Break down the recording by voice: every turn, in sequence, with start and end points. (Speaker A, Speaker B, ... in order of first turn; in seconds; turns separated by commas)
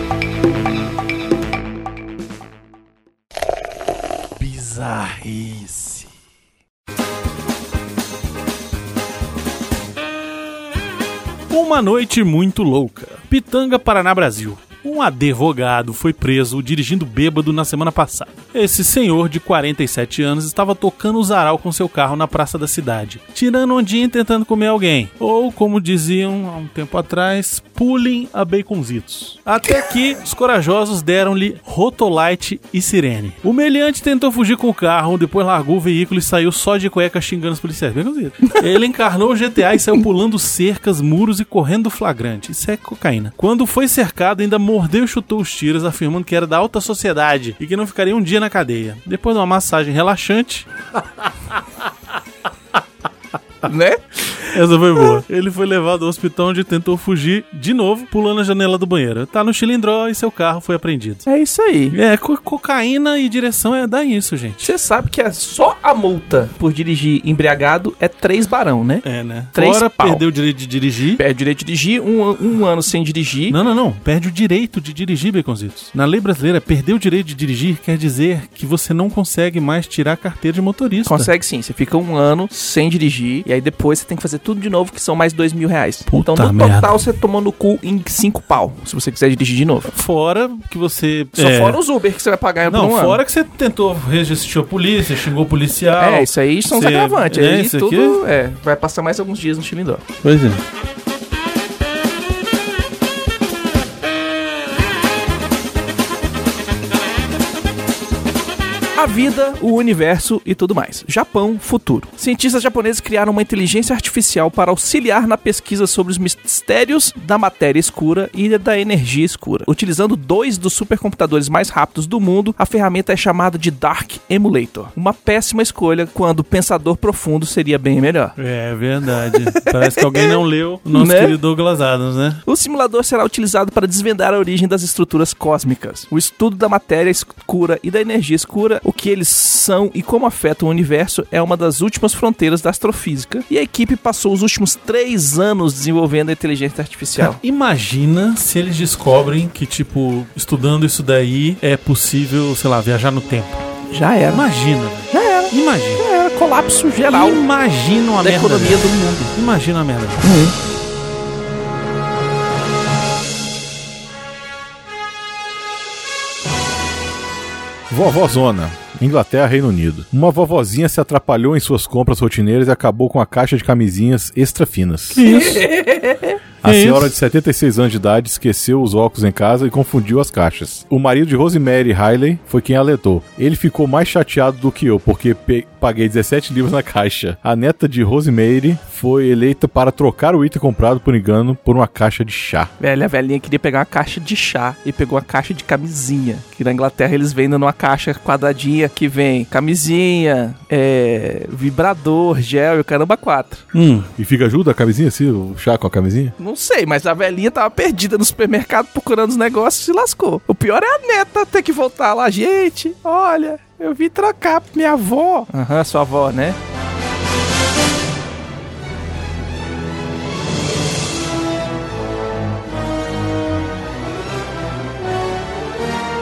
Speaker A: 4.4-6.1, Speaker A: 11.5-50.7, Speaker B: 53.6-54.4, Speaker A: 54.4-61.2, Speaker B: 61.2-61.9, Speaker A: 61.9-64.7, Speaker B: 64.6-70.2, Speaker A: 69.0-71.2, Speaker B: 71.2-73.6, Speaker A: 73.5-81.3, Speaker B: 81.0-89.9, Speaker A: 86.1-86.9, Speaker A: 89.9-91.8, Speaker B: 91.3-93.2, Speaker A: 92.7-98.2, Speaker B: 96.0-100.0, Speaker A: 100.2-100.6, Speaker B: 109.0-128.3, Speaker A: 128.4-132.4, Speaker B: 129.6-130.4, Speaker B: 130.9-131.4, Speaker B: 132.4-147.4, Speaker A: 147.2-153.6, Speaker B: 153.9-154.4, Speaker A: 154.3-156.0, Speaker B: 155.1-157.4, Speaker A: 157.1-160.2, Speaker B: 158.2-159.3, Speaker B: 160.2-160.5, Speaker C: 167.9-175.2, Speaker A: 175.1-175.7, Speaker B: 175.2-176.4, Speaker C: 176.6-192.7, Speaker A: 176.6-177.1, Speaker B: 192.8-203.6, Speaker A: 203.7-204.1, Speaker C: 204.2-206.3, Speaker B: 206.4-216.6